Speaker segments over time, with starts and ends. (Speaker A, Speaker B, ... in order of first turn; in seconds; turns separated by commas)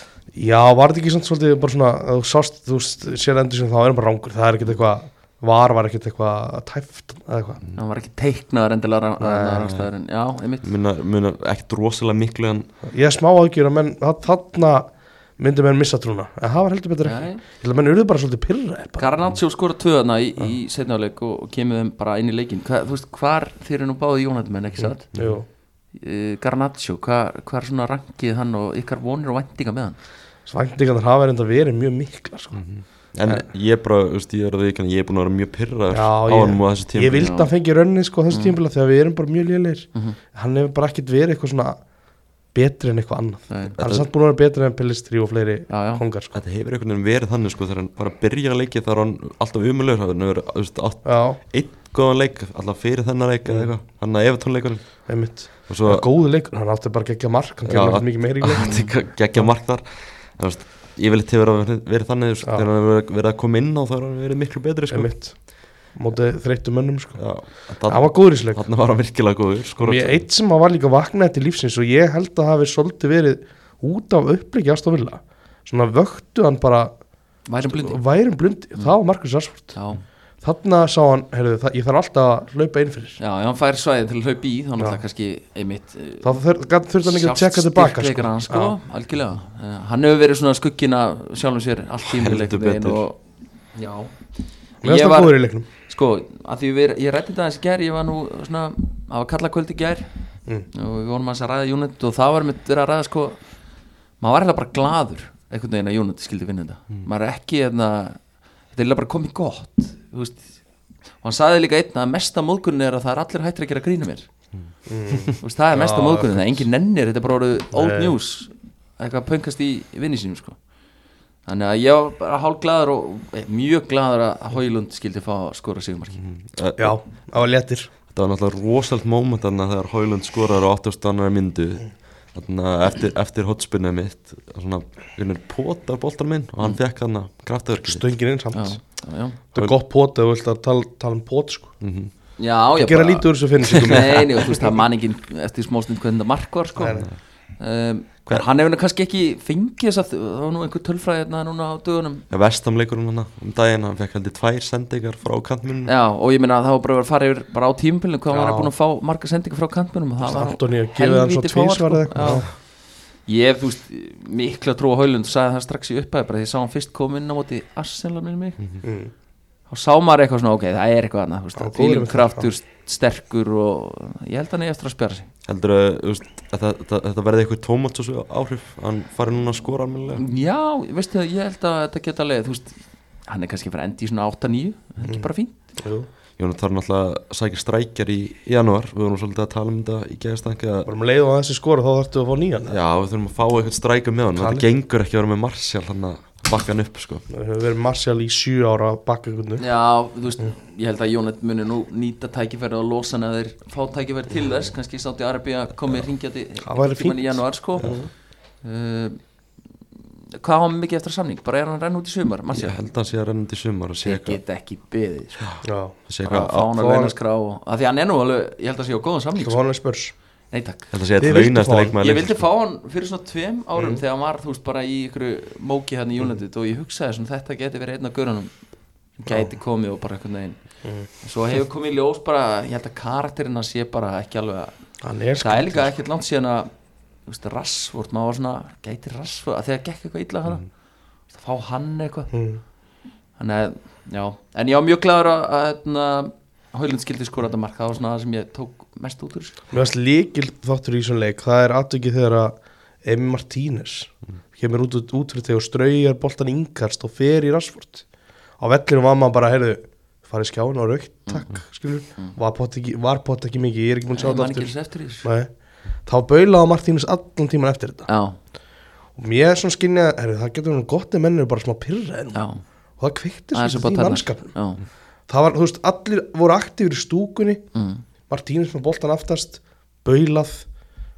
Speaker A: 0.3-7.6, Speaker B: 7.8-10.7, Speaker A: 9.2-9.7, Speaker C: 10.6-12.7, Speaker A: 12.9-19.1, Speaker B: 17.0-17.4, Speaker B: 19.0-25.0, Speaker A: 24.8-25.5, Speaker C: 25.1-25.4, Speaker B: 26.0-30.0, Speaker A: 30.5-32.6, Speaker C: 32.5-37.4, Speaker A: 35.9-41.8, Speaker B: 37.1-37.5, Speaker B: 38.3-38.6, Speaker A: 42.5-46.4, Speaker B: 43.5-43.8, Speaker C: 43.8-44.1, Speaker B: 45.7-46.0, Speaker C: 46.3-55.1, Speaker A: 51.0-51.4, Speaker A: 53.5-53.7, Speaker A: 55.1-58.8, Speaker C: 55.7-56.1, Speaker C: 57.7-65.1, Speaker B: 58.6-58.9, Speaker A: 64.9-65.4, Speaker A: 66.0-67.2, Speaker C: 67.2-70.2, Speaker A: 67.9-68.7, Speaker A: 69.8-77.0, Speaker B: 77.5-78.0, Speaker A: 77.7-79.8, Speaker B: 79.7-80.0, Speaker A: 80.4-83.2, Speaker B: 83.2-86.4, Speaker A: 86.2-88.8, Speaker B: 87.0-93.2, Speaker C: 92.1-93.0, Speaker B: 93.8-94.1, Speaker B: 94.8-100.1, Speaker A: 94.8-95.7, Speaker B: 100.7-103.4, Speaker B: 104.2-108.2, Speaker B: 108.7-110.6, Speaker B: 111.2-114.3, Speaker C: 114.5-115.3, Speaker A: 114.9-116.6, Speaker B: 115.4-120.6, Speaker A: 117.7-118.2, Speaker B: 121.5-126.2, Speaker C: 126.2-127.0, Speaker A: 126.8-127.9, Speaker C: 128.1-138.1, Speaker A: 137.8-138.8, Speaker B: 138.5-139.4, Speaker A: 139.5-141.7, Speaker C: 141.8-142.1, Speaker B: 142.4-147.1, Speaker A: 142.8-144.8, Speaker C: 143.7-144.1, Speaker A: 146.8-147.1, Speaker C: 146.8-147.2, Speaker B: 147.6-152.3, Speaker C: 152.3-155.9, Speaker B: 155.9-162.5, Speaker A: 158.3-158.7, Speaker A: 160.2-162.5, Speaker C: 162.2-162.4, Speaker B: 163.3-168.6, Speaker A: 168.8-169.1, Speaker B: 169.7-175.3, Speaker A: 171.6-172.5, Speaker C: 175.5-180.2, Speaker B: 180.2-185.6, Speaker A: 185.0-186.1, Speaker C: 186.4-190.9, Speaker A: 190.9-192.8, Speaker C: 192.7-197.2, Speaker A: 194.4-194.7, Speaker A: 197.3-199.6, Speaker B: 199.6-207.9, Speaker A: 206.6-208.1, Speaker C: 207.8-208.0, Speaker B: 208.6-209.2, Speaker B: 210.4-212.8, Speaker C: 212.5-214.4, Speaker B: 214.0-215.5, Speaker C: 215.4-216.7, Speaker A: 215.6-216.0, Speaker B: 216.2-219.6, Speaker A: 216.7-217.1, Speaker A: 219.4-220.1, Speaker B: 220.5-220.9, Speaker C: 220.9-222.4, Speaker A: 221.2-222.0, Speaker B: 222.0-228.5, Speaker A: 223.8-224.0, Speaker B: 229.2-230.6, Speaker B: 231.2-234.7, Speaker A: 235.0-235.9, Speaker B: 235.4-236.7, Speaker B: 237.3-240.7, Speaker B: 241.3-242.3, Speaker A: 242.3-242.6, Speaker B: 243.4-249.6, Speaker A: 249.7-258.1, Speaker A: 258.6-265.5, Speaker B: 264.1-265.3, Speaker A: 266.1-268.1, Speaker B: 268.1-268.4, Speaker A: 269.2-272.4, Speaker B: 272.3-272.6, Speaker A: 273.0-274.5, Speaker B: 273.5-274.8, Speaker A: 275.3-277.6, Speaker B: 277.7-278.0, Speaker A: 278.3-280.7